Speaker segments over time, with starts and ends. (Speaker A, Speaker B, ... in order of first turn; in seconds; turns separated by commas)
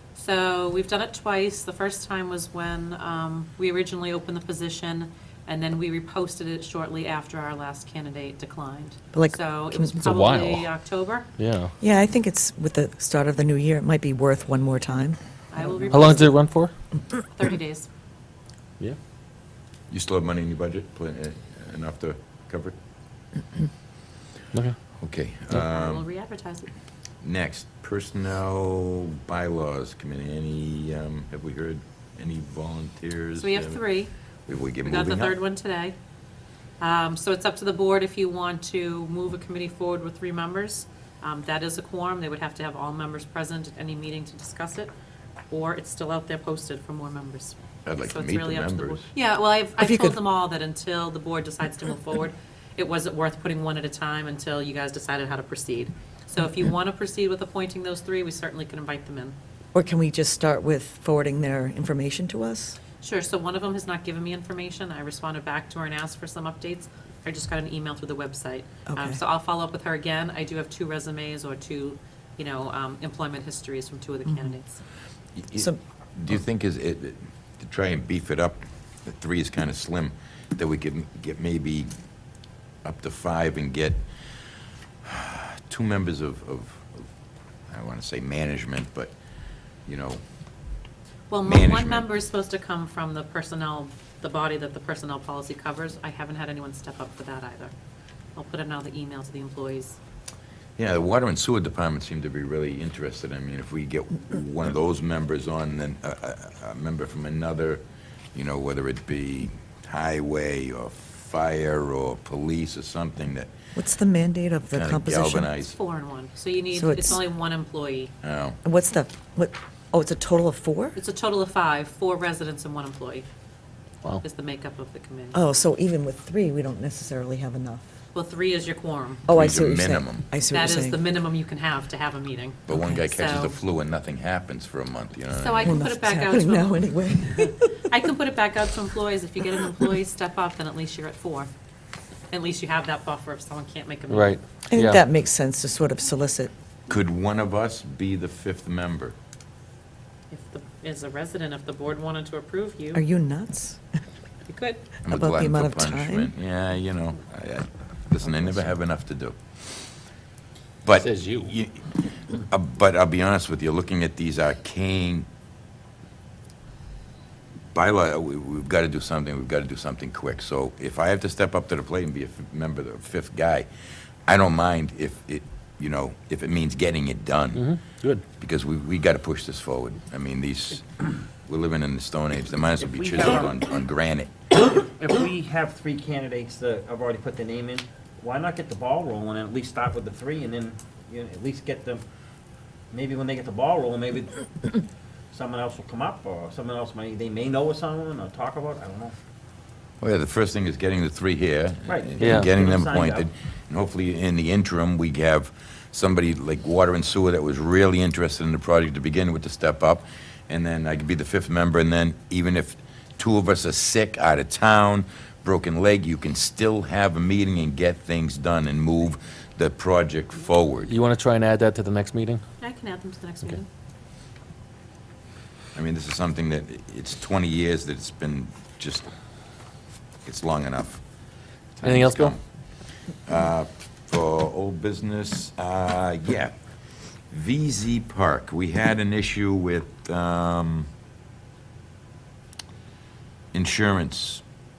Speaker A: 0.1-11.3, Speaker B: 9.1-9.9, Speaker C: 10.0-10.7, Speaker C: 11.4-11.7, Speaker B: 11.8-15.2, Speaker A: 15.5-16.4, Speaker C: 15.9-16.7, Speaker A: 17.2-17.9, Speaker D: 19.9-22.7, Speaker D: 25.0-26.1, Speaker A: 25.5-26.7, Speaker D: 27.2-33.8, Speaker A: 33.4-34.1, Speaker D: 34.5-35.4, Speaker A: 34.8-35.9, Speaker A: 36.8-44.9, Speaker A: 45.5-59.4, Speaker D: 47.9-49.1, Speaker B: 49.8-50.1, Speaker B: 59.7-62.8, Speaker A: 63.0-74.8, Speaker B: 68.9-69.2, Speaker D: 75.3-81.9, Speaker D: 82.8-84.0, Speaker D: 85.0-87.1, Speaker D: 87.7-89.1, Speaker D: 89.8-90.2, Speaker A: 91.3-97.7, Speaker D: 91.4-92.1, Speaker A: 98.3-100.0, Speaker D: 100.8-107.8, Speaker D: 108.3-113.5, Speaker B: 113.7-115.5, Speaker D: 114.7-115.7, Speaker A: 115.6-118.1, Speaker B: 116.7-117.2, Speaker D: 118.2-118.6, Speaker B: 118.6-121.0, Speaker A: 121.0-123.2, Speaker A: 124.2-125.4, Speaker B: 125.3-127.8, Speaker A: 128.1-129.2, Speaker B: 129.3-131.0, Speaker D: 129.3-130.3, Speaker A: 130.5-133.5, Speaker D: 132.7-135.8, Speaker A: 135.3-141.5, Speaker B: 135.6-137.7, Speaker A: 142.3-144.4, Speaker C: 144.1-145.0, Speaker B: 144.7-146.5, Speaker D: 146.9-149.1, Speaker A: 150.3-153.0, Speaker B: 152.9-153.9, Speaker A: 154.5-154.8, Speaker D: 155.0-159.4, Speaker B: 155.1-156.3, Speaker D: 160.8-165.3, Speaker C: 161.0-161.5, Speaker D: 167.7-173.7, Speaker D: 174.3-177.8, Speaker C: 177.5-178.2, Speaker D: 178.3-184.3, Speaker E: 182.8-183.5, Speaker E: 184.6-192.0, Speaker E: 192.9-194.4, Speaker E: 195.3-199.1, Speaker D: 200.0-220.9, Speaker E: 201.8-203.3, Speaker C: 202.2-202.5, Speaker C: 220.8-222.4, Speaker A: 222.6-223.7, Speaker D: 225.7-229.1, Speaker D: 230.2-231.0, Speaker D: 231.8-232.4, Speaker C: 231.8-232.3, Speaker D: 233.2-236.5, Speaker D: 237.3-240.9, Speaker D: 243.5-244.4